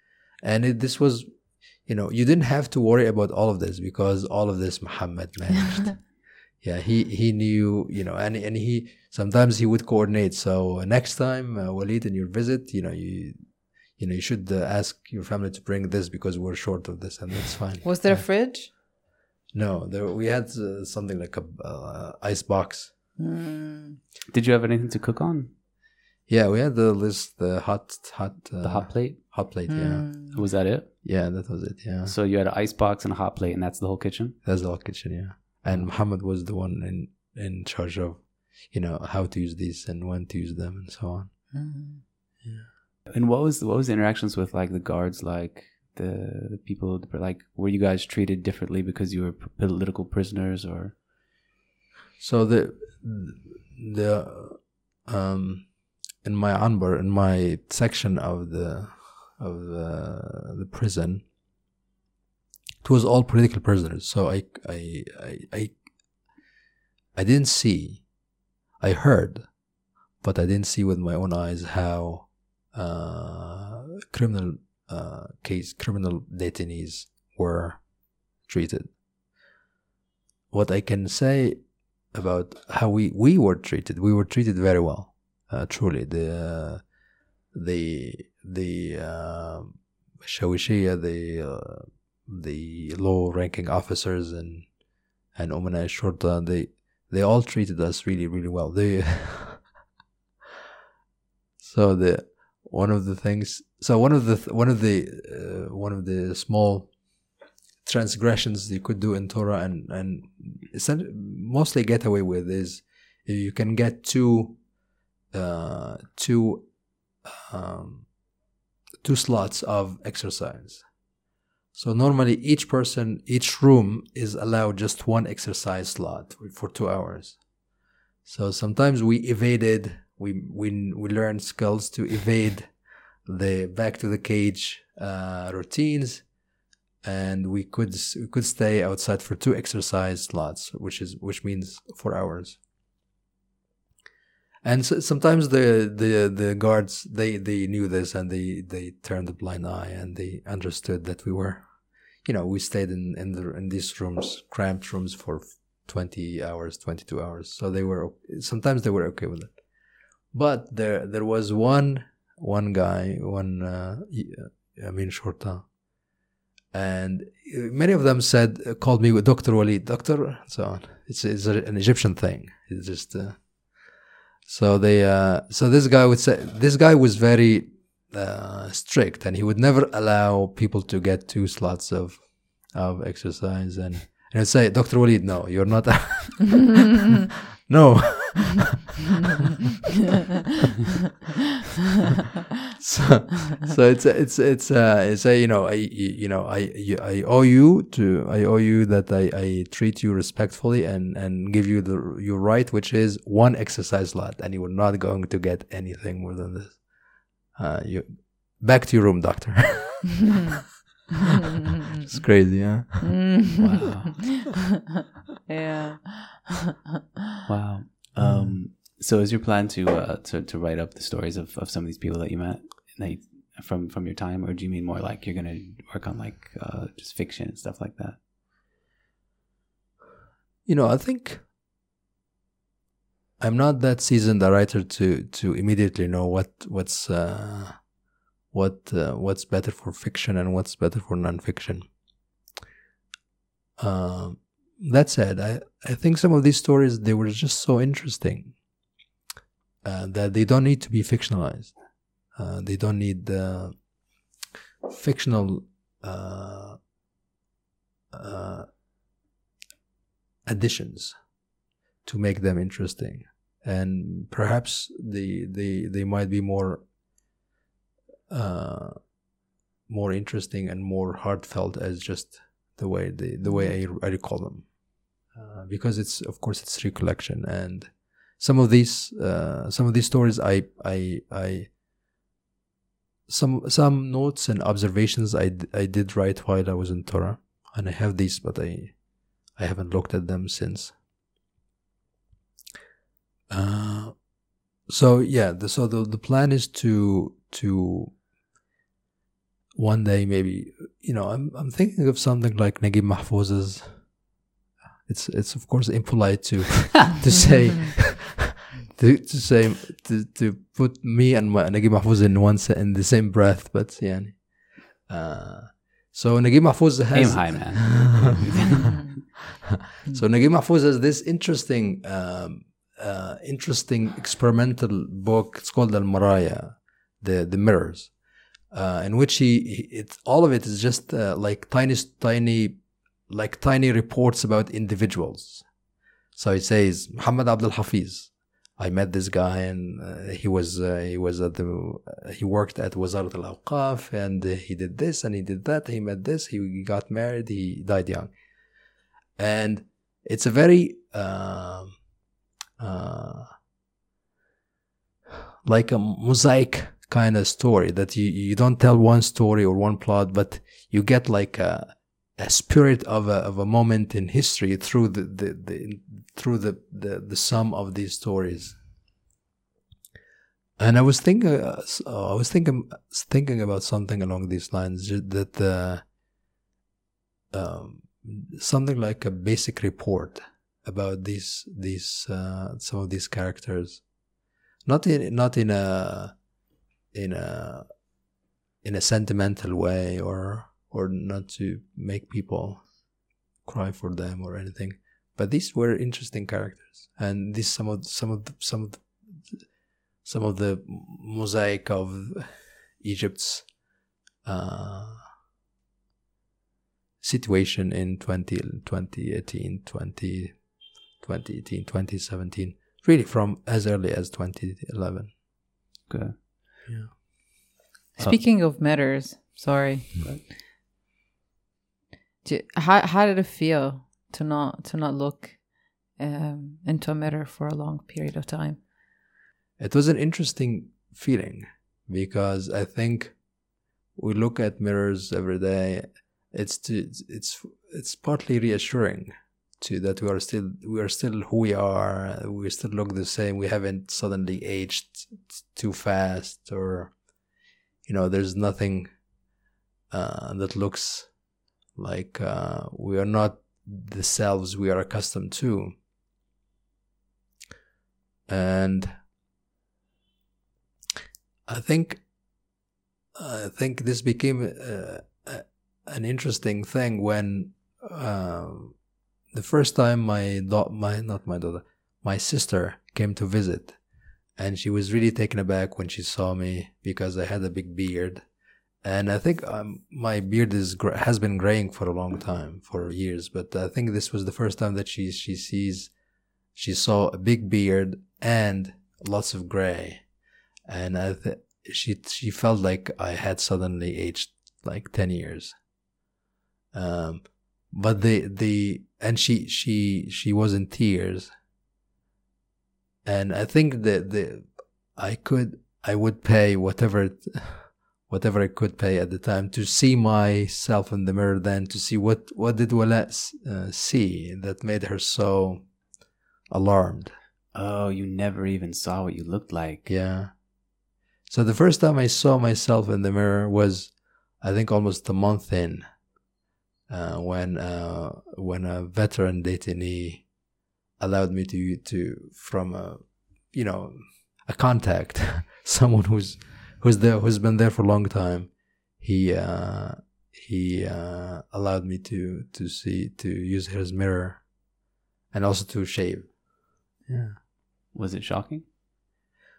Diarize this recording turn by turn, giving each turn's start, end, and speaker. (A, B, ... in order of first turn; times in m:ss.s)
0:00.4-0:18.2 A
0:17.8-0:18.7 B
0:19.5-0:22.9 A
0:23.2-0:24.0 B
0:24.3-0:25.5 C
0:26.3-0:30.3 A
0:28.6-0:29.2 C
0:29.7-0:30.4 B
0:30.3-0:31.0 C
0:31.0-0:32.1 A
0:32.0-0:34.4 C
0:34.4-0:41.5 A
0:41.5-0:42.0 B
0:42.4-0:42.7 A
0:43.1-0:50.9 C
0:52.2-1:01.2 A
1:02.8-1:05.8 A
1:07.1-1:08.1 A
1:08.8-1:09.6 A
1:10.2-1:19.0 A
1:20.5-1:26.9 A
1:27.5-1:34.8 A
1:35.3-1:39.7 A
1:41.6-1:47.0 A
1:47.8-1:54.6 A
1:55.3-1:56.7 A
1:57.2-1:58.1 A
1:59.0-2:00.8 A
2:01.7-2:07.4 A
2:08.2-2:16.3 A
2:17.0-2:22.6 A
2:24.6-2:39.6 A
2:40.3-2:45.7 A
2:46.7-2:53.8 A
2:54.4-3:06.8 A
3:07.7-3:08.9 A
3:12.8-3:26.9 A
3:27.4-3:30.4 A
3:31.9-3:33.2 A
3:33.0-3:34.6 B
3:33.6-3:34.3 C
3:35.5-3:36.7 B
3:37.4-3:48.2 C
3:38.2-3:38.6 A
3:50.6-3:51.4 A
3:53.4-3:57.9 A
3:58.5-4:02.0 A
4:03.8-4:08.6 A
4:09.8-4:13.9 A
4:14.8-4:16.8 A
4:18.1-4:18.7 A
4:20.4-4:21.3 A
4:22.0-4:26.9 A
4:28.3-4:29.1 A
4:29.9-4:34.7 A
4:33.4-4:33.8 B
4:35.3-4:41.7 A
4:43.3-4:51.0 A
4:53.5-4:54.3 A
4:54.9-4:58.2 A
4:59.8-5:04.2 A
5:05.0-5:18.7 A
5:17.1-5:19.1 C
5:18.7-5:19.0 B
5:20.1-5:28.2 A
5:28.7-5:35.7 A
5:36.3-5:48.3 A
5:49.4-5:52.0 A
5:52.8-5:53.5 A
5:55.6-6:08.8 A
6:10.8-6:16.1 A
6:17.5-6:24.1 A
6:24.8-6:26.4 A
6:27.1-6:28.1 A
6:28.8-6:33.0 A
6:33.6-6:39.7 A
6:40.2-6:43.8 A
6:44.4-6:45.3 A
6:47.2-6:55.3 A
6:56.1-6:56.4 C
6:56.8-6:57.3 A
6:58.2-7:00.2 B
7:00.2-7:00.4 C
7:02.4-7:08.8 B
7:09.8-7:13.4 A
7:14.1-7:27.2 A
7:28.0-7:29.3 A
7:30.1-7:31.4 A
7:31.9-7:36.0 A
7:38.5-7:39.1 A
7:41.6-7:42.2 A
7:43.4-7:54.0 A
7:54.6-7:58.4 A
7:59.0-8:06.1 A
8:06.7-8:10.3 A
8:10.8-8:15.8 A
8:16.9-8:21.5 A
8:23.2-8:35.9 A
8:36.7-8:37.3 A
8:37.7-8:40.1 C
8:40.0-8:40.6 A
8:41.5-8:46.2 A
8:47.1-8:50.5 A
8:51.2-9:04.9 A
9:05.5-9:06.6 A
9:07.2-9:07.6 A
9:08.1-9:08.8 C